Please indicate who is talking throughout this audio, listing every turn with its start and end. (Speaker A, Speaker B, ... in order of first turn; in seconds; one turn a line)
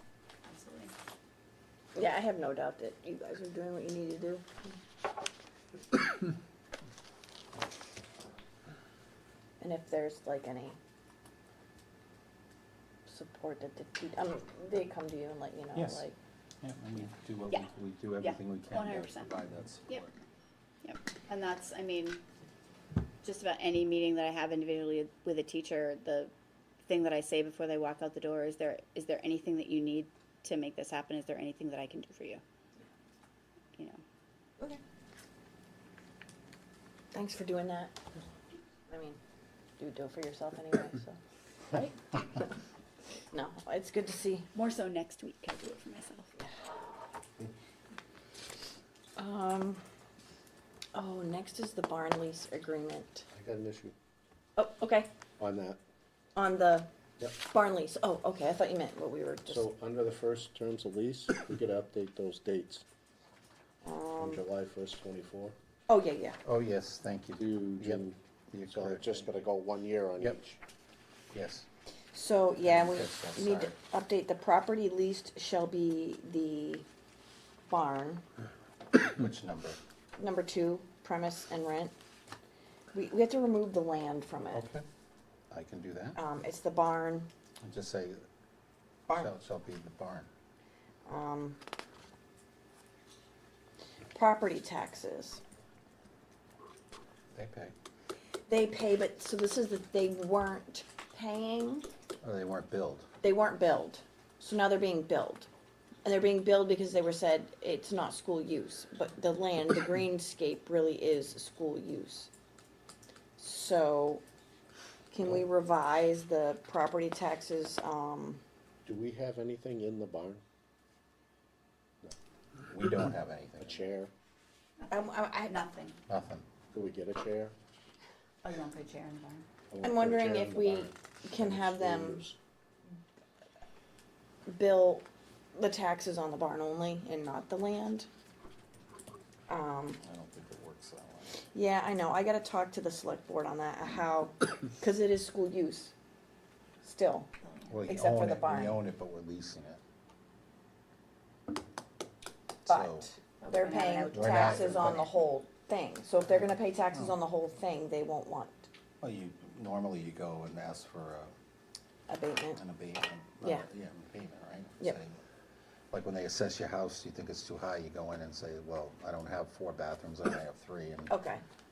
Speaker A: 0.5-0.9
Speaker B: 1.9-4.7
Speaker B: 9.6-10.8
Speaker B: 13.1-16.1
Speaker C: 15.7-16.1
Speaker C: 16.6-20.1
Speaker A: 17.5-19.3
Speaker A: 20.8-22.2
Speaker A: 23.2-26.3
Speaker A: 26.9-32.4
Speaker A: 33.8-34.0
Speaker B: 37.1-38.0
Speaker B: 38.9-39.2
Speaker B: 39.8-41.2
Speaker B: 41.7-42.5
Speaker B: 43.3-44.5
Speaker A: 44.5-46.4
Speaker B: 49.2-49.8
Speaker B: 50.9-53.3
Speaker D: 53.3-53.9
Speaker B: 54.6-55.1
Speaker D: 55.4-55.8
Speaker B: 56.4-59.6
Speaker D: 59.5-62.8
Speaker B: 63.8-64.4
Speaker D: 64.2-65.5
Speaker B: 65.9-66.4
Speaker C: 66.4-69.2
Speaker D: 67.4-68.2
Speaker D: 68.7-70.6
Speaker C: 71.3-71.7
Speaker B: 72.1-76.9
Speaker C: 72.6-73.7
Speaker B: 77.7-78.2
Speaker C: 79.1-79.8
Speaker B: 80.2-81.9
Speaker B: 82.9-84.6
Speaker C: 84.5-84.8
Speaker C: 85.5-86.2
Speaker B: 86.2-87.3
Speaker C: 87.6-88.2
Speaker C: 89.1-90.3
Speaker B: 91.0-91.6
Speaker B: 94.1-95.4
Speaker C: 97.3-97.7
Speaker B: 98.5-101.9
Speaker C: 102.2-103.1
Speaker B: 103.2-105.5
Speaker B: 106.0-112.3
Speaker B: 113.4-114.2
Speaker B: 115.1-118.4
Speaker D: 118.8-120.4
Speaker C: 122.7-123.8
Speaker D: 123.6-124.1
Speaker A: 124.8-126.0
Speaker B: 124.9-125.7
Speaker C: 126.1-126.5
Speaker D: 126.7-127.5
Speaker A: 128.4-129.4
Speaker D: 129.7-132.4
Speaker B: 129.8-132.2
Speaker B: 134.4-138.1
Speaker B: 139.5-140.0
Speaker C: 140.0-141.4
Speaker B: 141.5-145.9
Speaker B: 146.8-147.3
Speaker C: 147.7-149.8
Speaker B: 147.9-148.8
Speaker C: 152.7-153.1
Speaker B: 152.7-158.7
Speaker A: 153.4-155.1
Speaker C: 154.1-155.1
Speaker C: 159.0-161.3
Speaker B: 162.1-162.6
Speaker C: 162.6-165.2
Speaker B: 163.4-163.7
Speaker C: 165.9-171.1
Speaker B: 171.1-171.4